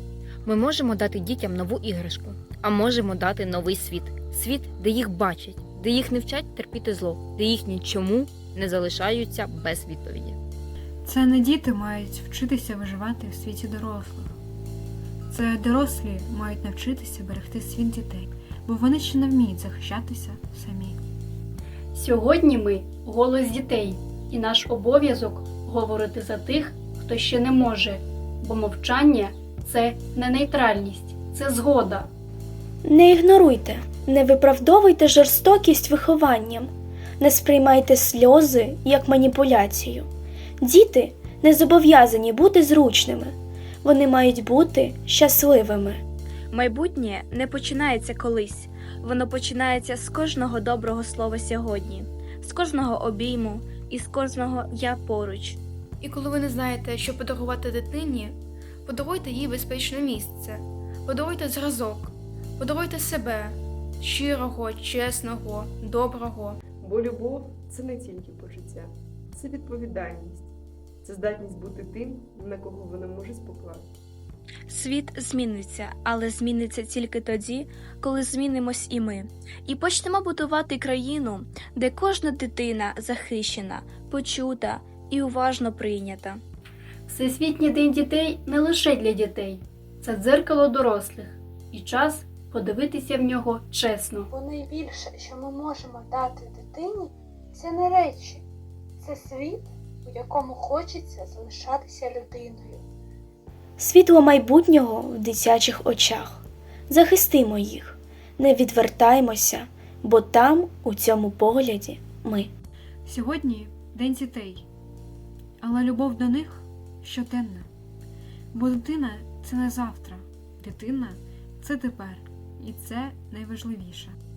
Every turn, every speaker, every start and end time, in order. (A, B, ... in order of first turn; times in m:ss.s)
0:00.4-0:10.4 A
0:11.0-0:14.4 B
0:15.3-0:21.0 B
0:21.9-0:32.1 C
0:32.8-0:40.1 D
0:40.6-0:46.0 D
0:46.5-0:55.6 E
0:56.0-1:06.6 F
1:06.8-1:13.9 G
1:14.7-1:26.4 E
1:27.1-1:34.3 C
1:34.3-1:38.4 H
1:39.0-1:42.8 H
1:43.8-1:52.5 D
1:53.0-1:54.7 B
1:55.6-1:57.7 B
1:58.5-2:04.2 B